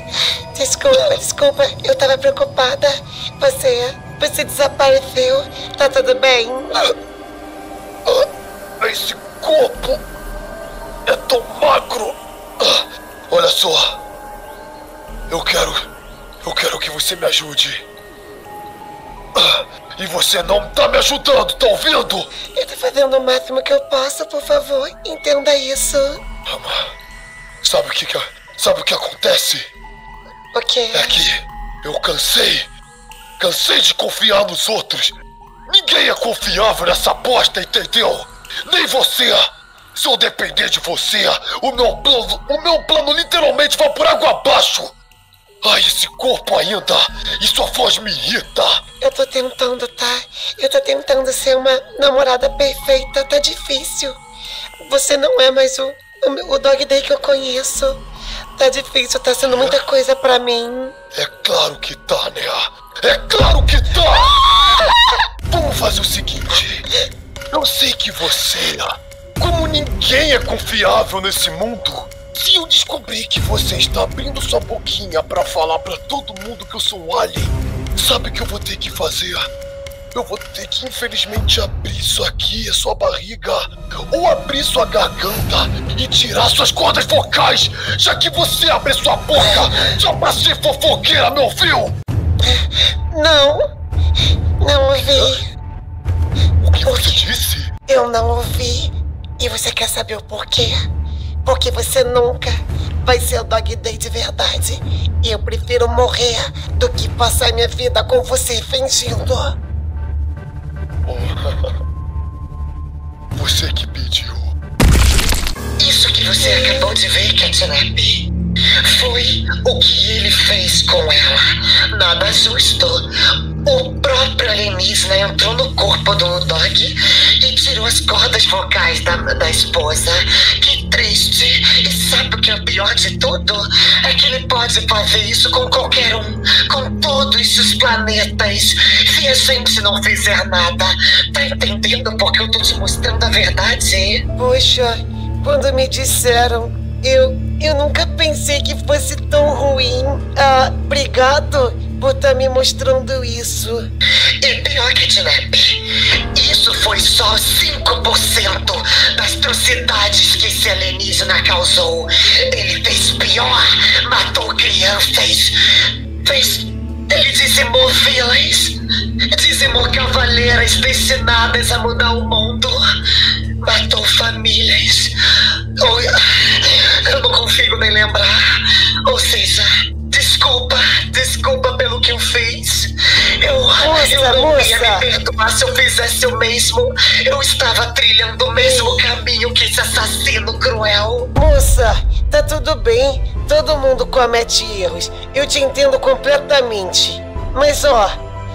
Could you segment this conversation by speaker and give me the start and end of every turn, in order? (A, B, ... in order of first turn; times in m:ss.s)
0:00.5-0:06.8 A
0:08.8-0:10.0 B
0:11.0-0:14.0 B
0:15.3-0:15.8 B
0:16.4-0:17.8 B
0:19.4-0:22.3 B
0:22.5-0:26.2 A
0:26.5-0:26.8 B
0:27.6-0:29.7 B
0:30.5-0:31.2 A
0:30.9-0:32.7 B
0:33.4-0:35.1 B
0:35.7-0:44.9 B
0:45.6-0:48.8 B
0:49.0-0:54.2 A
0:54.8-0:58.0 A
0:58.6-1:00.9 A
0:59.4-0:59.8 B
1:01.1-1:04.7 B
1:05.5-1:06.8 B
1:07.5-1:19.5 B
1:20.1-1:31.9 B
1:33.1-1:33.6 A
1:34.6-1:35.4 A
1:35.1-1:35.4 B
1:36.6-1:37.7 B
1:36.8-1:37.2 A
1:37.9-1:40.8 A
1:41.4-1:49.6 A
1:51.0-1:51.7 B
1:53.4-1:54.5 B
1:55.8-1:58.3 C
1:56.4-1:57.0 A
1:58.8-2:03.0 C
2:03.6-2:24.2 C
2:24.4-2:33.8 A
2:34.4-2:45.6 C
2:46.2-2:48.8 C
2:49.3-2:52.8 C
2:53.6-2:55.1 C
2:55.8-2:58.4 C
2:59.0-3:11.3 C
3:03.8-3:05.0 A
3:08.6-3:09.0 A
3:11.3-3:18.2 A